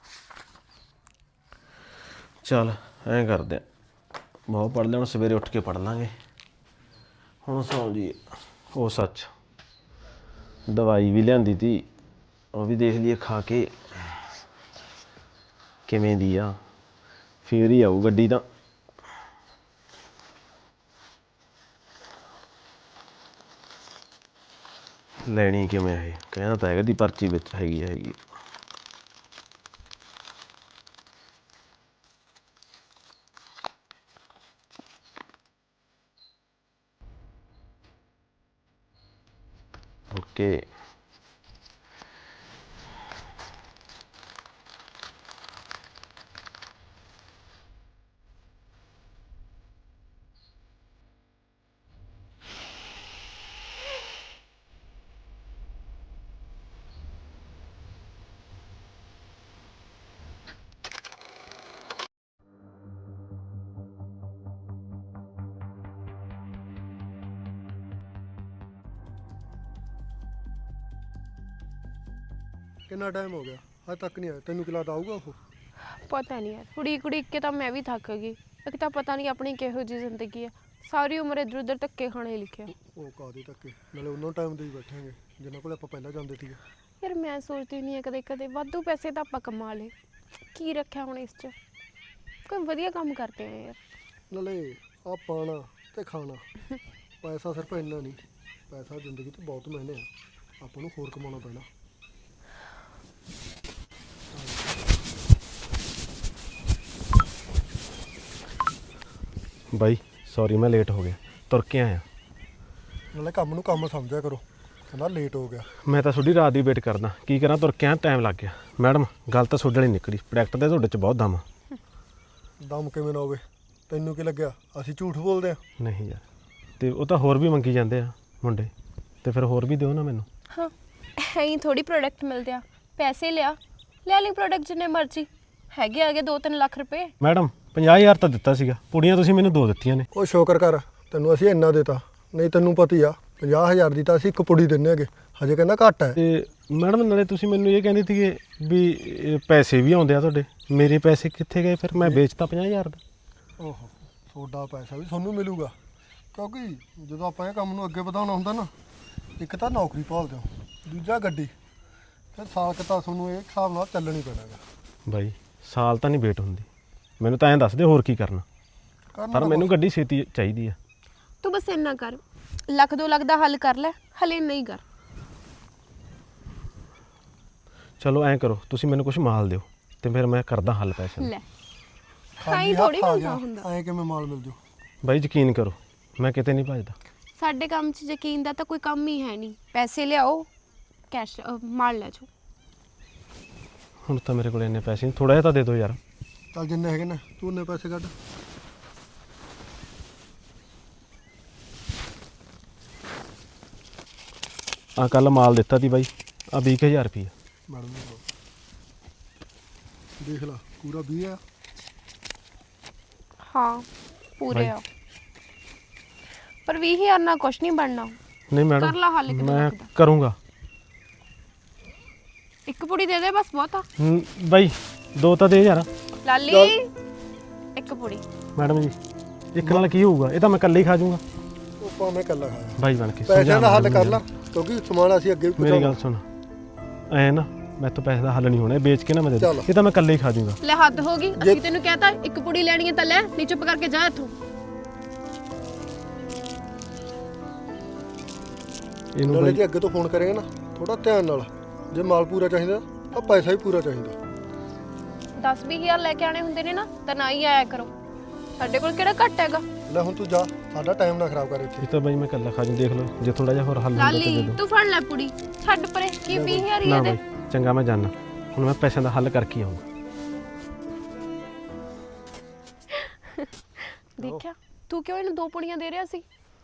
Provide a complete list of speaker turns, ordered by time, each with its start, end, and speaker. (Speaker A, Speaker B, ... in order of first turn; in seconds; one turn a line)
Speaker A: 2.4-3.6
Speaker A: 4.5-6.1
Speaker A: 7.4-8.2
Speaker A: 8.7-9.3
Speaker A: 10.7-11.9
Speaker A: 12.5-14.0
Speaker A: 15.9-16.6
Speaker A: 17.4-18.4
Speaker A: 25.3-28.2
Speaker A: 40.1-40.7
Speaker B: 72.9-75.4
Speaker C: 76.0-82.7
Speaker B: 82.7-86.6
Speaker C: 87.0-89.9
Speaker C: 90.5-91.5
Speaker C: 92.5-93.8
Speaker B: 94.3-96.4
Speaker B: 97.2-100.1
Speaker B: 100.6-101.7
Speaker B: 104.3-104.6
Speaker A: 109.7-112.0
Speaker B: 113.1-115.7
Speaker A: 115.8-121.4
Speaker B: 122.6-125.6
Speaker A: 125.8-126.2
Speaker A: 126.8-128.7
Speaker A: 129.2-130.3
Speaker C: 130.5-137.1
Speaker A: 137.2-140.1
Speaker B: 140.1-146.2
Speaker A: 146.2-153.0
Speaker B: 153.6-155.8
Speaker B: 156.3-158.7
Speaker B: 159.4-161.5
Speaker B: 162.3-164.6
Speaker A: 165.1-166.7
Speaker A: 167.2-168.4
Speaker B: 169.1-169.7
Speaker A: 169.3-170.8
Speaker C: 171.4-174.8
Speaker A: 178.0-181.3
Speaker B: 182.4-184.6
Speaker C: 182.5-183.7
Speaker A: 185.0-187.0
Speaker C: 187.4-190.5
Speaker C: 191.1-192.3
Speaker A: 194.0-196.0
Speaker B: 196.5-198.1
Speaker A: 205.0-207.3
Speaker B: 207.7-208.2
Speaker B: 210.2-211.4
Speaker C: 213.5-213.9
Speaker C: 214.4-214.8
Speaker C: 216.7-218.2
Speaker A: 218.5-220.4
Speaker C: 218.8-219.9
Speaker C: 222.7-223.9
Speaker A: 224.0-225.9
Speaker C: 226.2-226.9
Speaker B: 226.5-226.7
Speaker C: 227.8-228.2
Speaker A: 228.6-229.0
Speaker A: 229.5-231.2
Speaker B: 231.8-236.0
Speaker A: 232.8-234.2
Speaker A: 235.6-236.2
Speaker A: 237.1-240.6
Speaker B: 239.4-239.7
Speaker C: 240.6-244.3
Speaker A: 249.2-249.6
Speaker B: 249.3-254.2
Speaker C: 255.4-257.9
Speaker C: 258.6-259.6
Speaker B: 259.9-261.9
Speaker A: 261.8-264.6
Speaker C: 263.9-267.2
Speaker B: 266.3-266.7
Speaker A: 266.8-269.8
Speaker C: 274.2-276.2